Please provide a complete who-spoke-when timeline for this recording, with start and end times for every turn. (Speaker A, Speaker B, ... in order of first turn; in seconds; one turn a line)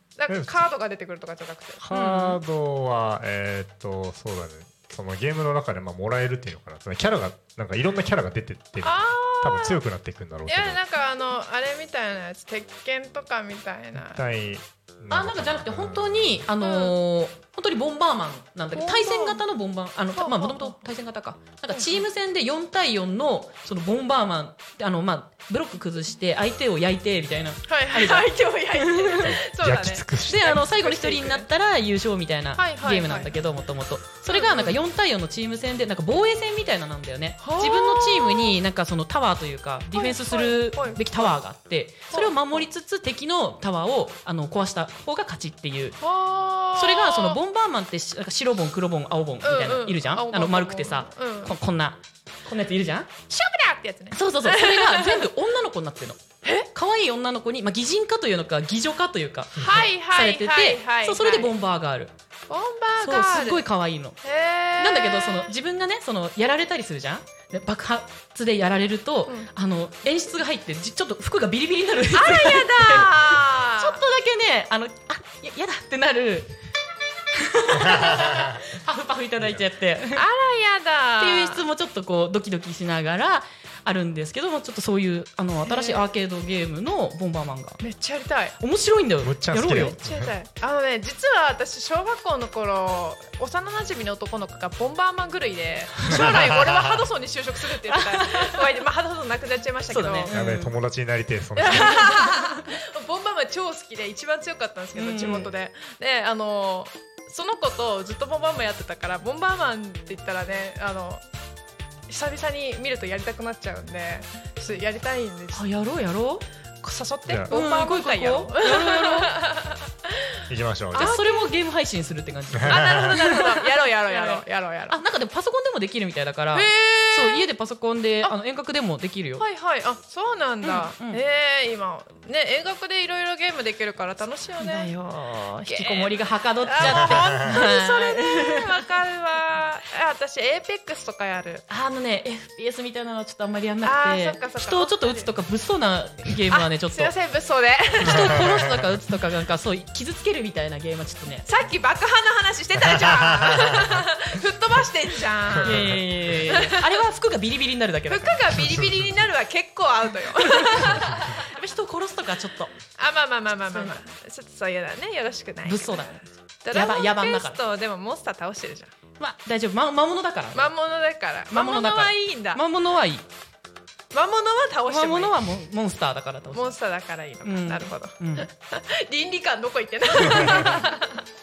Speaker A: 0.2-1.8
Speaker B: 0.3-0.7
Speaker B: 1.8-10.8
Speaker C: 1.9-2.4
Speaker A: 8.8-9.8
Speaker A: 10.5-14.2
Speaker B: 14.0-16.4
Speaker C: 15.1-29.4
Speaker A: 16.6-16.9
Speaker A: 18.7-19.4
Speaker A: 20.2-20.8
Speaker A: 21.7-22.1
Speaker A: 27.7-31.5
Speaker B: 29.2-30.6
Speaker C: 30.2-46.0
Speaker A: 32.6-33.4
Speaker A: 34.3-34.8
Speaker A: 37.4-38.6
Speaker A: 39.9-41.3
Speaker A: 42.1-42.6
Speaker A: 46.0-47.4
Speaker C: 46.8-53.1
Speaker A: 49.4-51.5
Speaker A: 53.3-55.3
Speaker C: 54.1-62.1
Speaker A: 59.6-61.5
Speaker A: 62.5-63.6
Speaker C: 63.0-64.2
Speaker A: 64.2-65.5
Speaker C: 64.8-76.5
Speaker A: 72.1-74.0
Speaker C: 77.3-80.2
Speaker B: 77.8-78.6
Speaker A: 80.1-81.6
Speaker C: 81.2-87.8
Speaker A: 85.7-86.0
Speaker A: 87.8-88.5
Speaker C: 88.6-90.0
Speaker B: 89.2-90.3
Speaker A: 89.7-100.3
Speaker C: 96.0-96.5
Speaker B: 96.1-97.0
Speaker C: 97.9-98.7
Speaker C: 99.9-100.7
Speaker B: 100.3-102.1
Speaker A: 101.6-111.2
Speaker C: 101.7-102.7
Speaker C: 105.0-105.5
Speaker A: 112.1-115.7
Speaker C: 115.5-116.5
Speaker A: 116.8-120.1
Speaker C: 117.5-119.3
Speaker B: 120.5-121.2
Speaker A: 120.9-121.4
Speaker C: 121.0-129.4
Speaker B: 122.5-123.2
Speaker A: 122.7-125.0
Speaker A: 126.5-127.5
Speaker A: 129.4-134.9
Speaker C: 130.6-131.2
Speaker C: 134.6-138.8
Speaker A: 135.7-141.7
Speaker B: 136.8-137.4
Speaker C: 141.7-147.1
Speaker A: 143.8-145.3
Speaker A: 146.5-148.5
Speaker C: 148.0-151.5
Speaker B: 148.1-148.8
Speaker A: 151.5-156.9
Speaker B: 152.9-154.0
Speaker B: 155.6-156.0
Speaker C: 155.6-158.5
Speaker A: 158.1-161.6
Speaker C: 160.4-162.7
Speaker A: 163.0-168.9
Speaker C: 163.7-164.0
Speaker C: 165.7-167.6
Speaker C: 169.2-170.7
Speaker A: 170.5-172.6
Speaker C: 171.5-173.3
Speaker A: 174.1-175.4
Speaker C: 174.9-176.7
Speaker A: 176.5-181.2
Speaker C: 177.4-178.5